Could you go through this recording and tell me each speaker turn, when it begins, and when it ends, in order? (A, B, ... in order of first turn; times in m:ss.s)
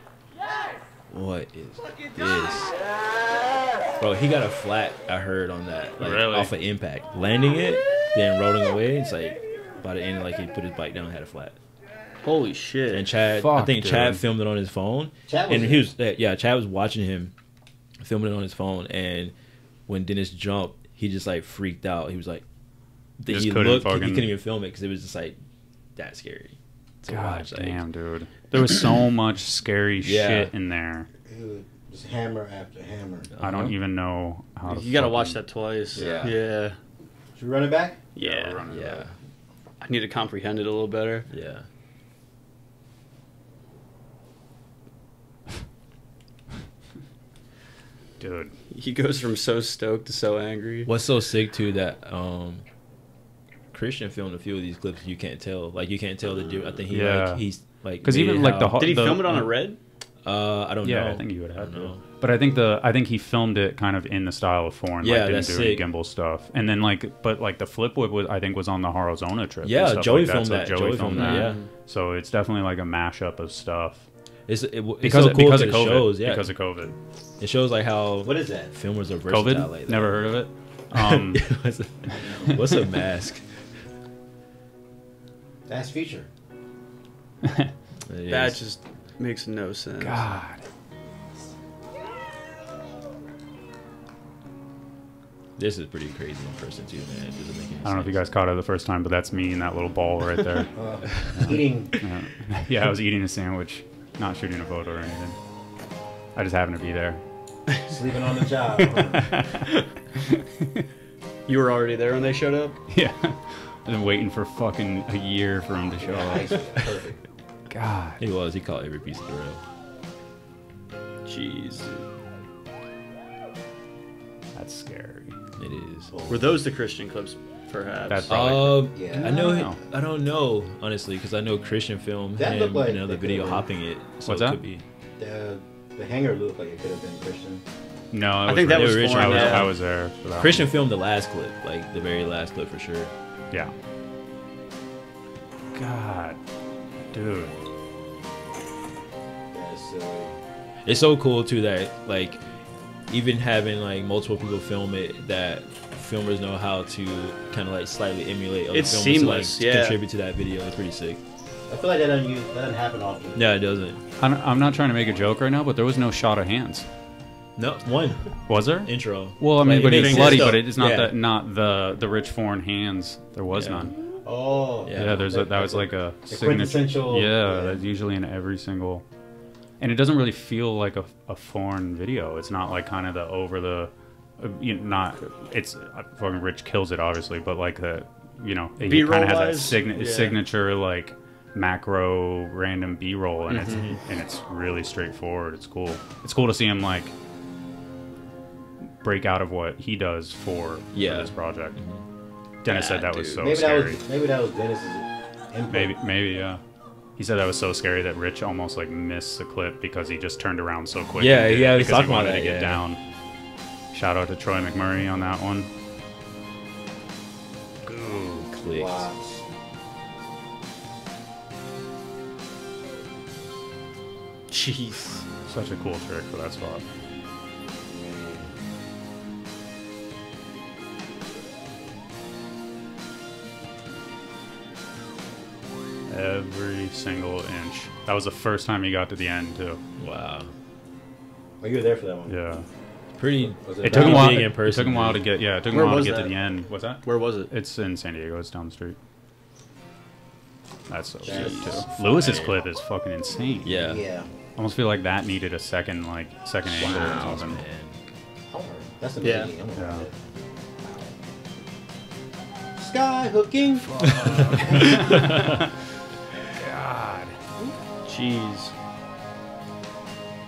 0:01.1-0:02.7 A
0:04.0-0:11.6 A
0:06.0-0:06.5 B
0:12.2-0:13.1 C
0:12.9-0:17.3 A
0:13.2-0:14.2 B
0:15.3-0:15.9 D
0:18.0-0:19.3 A
0:19.9-0:22.4 A
0:23.2-0:25.4 A
0:23.3-0:24.3 B
0:26.0-0:27.8 A
0:27.1-0:31.1 B
0:30.0-0:30.5 A
0:31.2-0:33.3 D
0:33.3-0:33.7 A
0:33.4-0:35.4 B
0:34.7-0:36.8 C
0:35.9-0:36.4 A
0:36.0-0:36.3 D
0:37.4-0:38.0 D
0:38.2-0:38.7 C
0:38.2-0:39.1 B
0:38.7-0:39.1 A
0:39.8-0:41.3 C
0:41.3-0:41.6 A
0:48.2-0:48.5 B
0:48.7-0:50.9 C
0:50.8-0:52.6 A
0:53.7-0:58.7 A
0:56.9-0:59.5 B
0:58.7-0:59.8 C
1:00.2-1:02.0 A
1:00.8-1:14.1 B
1:05.0-1:05.8 A
1:09.6-1:11.6 A
1:11.2-1:11.7 C
1:14.5-1:16.5 A
1:15.0-1:17.0 B
1:17.4-1:20.3 A
1:18.2-1:18.7 D
1:19.2-1:21.5 B
1:20.9-1:23.5 A
1:22.1-1:22.6 B
1:25.6-1:26.3 D
1:28.1-1:28.6 A
1:28.3-1:30.2 C
1:30.0-1:30.6 B
1:35.6-1:38.2 A
1:37.8-1:45.4 B
1:40.7-1:41.9 D
1:46.3-1:47.2 B
1:47.9-1:49.3 D
1:49.1-1:50.8 B
1:51.4-1:52.8 C
1:52.9-1:56.5 B
1:56.0-1:57.2 D
1:57.7-1:58.2 B
1:58.2-1:59.6 A
2:01.2-2:02.1 C
2:04.5-2:05.4 B
2:05.6-2:06.2 A
2:06.1-2:06.6 D
2:06.3-2:08.3 C
2:08.1-2:09.8 B
2:08.3-2:14.8 A
2:08.9-2:09.4 D
2:12.4-2:13.7 D
2:14.2-2:14.6 B
2:15.2-2:17.6 D
2:18.1-2:20.7 B
2:18.4-2:19.7 C
2:18.7-2:19.7 A
2:20.4-2:23.1 A
2:25.7-2:26.4 B
2:27.1-2:27.6 B
2:29.5-2:30.3 D
2:30.8-2:32.4 A
2:33.1-2:41.2 A
2:38.7-2:40.0 C
2:41.7-2:43.5 D
2:43.3-2:44.0 A
2:44.2-2:46.9 B
2:47.6-2:51.2 A
2:48.4-2:54.0 B
2:49.6-2:50.7 C
2:53.5-2:53.9 A
2:54.2-2:57.8 D
2:54.8-2:55.3 A
2:55.0-2:59.0 B
2:59.8-3:17.1 B
3:08.8-3:10.4 C
3:13.5-3:13.8 C
3:13.7-3:14.0 A
3:19.0-3:21.8 B
3:20.9-3:22.0 A
3:22.6-3:24.0 B
3:22.7-3:23.3 A
3:23.4-3:25.9 D
3:25.7-3:26.6 B
3:27.2-3:33.0 B
3:31.2-3:32.8 A
3:33.9-3:35.7 B
3:37.8-3:38.5 B
3:38.4-3:39.1 A
3:38.7-3:39.4 D
3:44.5-3:45.2 C
3:45.4-3:46.8 B
3:47.8-3:48.6 D
3:56.1-3:59.8 B
4:00.0-4:00.5 A
4:01.6-4:02.4 D
4:02.3-4:02.7 B
4:03.1-4:05.3 A
4:03.4-4:04.5 D
4:03.8-4:09.0 B
4:05.7-4:06.3 C
4:07.0-4:07.5 C
4:10.9-4:14.0 B
4:11.2-4:11.9 D
4:11.3-4:11.9 C
4:12.0-4:12.6 A
4:13.6-4:14.0 A
4:13.8-4:14.3 D
4:14.5-4:17.6 B
4:16.7-4:18.0 A
4:16.8-4:17.4 C
4:18.5-4:20.3 D
4:19.2-4:19.5 C
4:19.7-4:20.1 B
4:22.8-4:24.9 D
4:23.8-4:25.6 B
4:24.1-4:24.8 A
4:26.5-4:27.4 B
4:28.0-4:28.7 C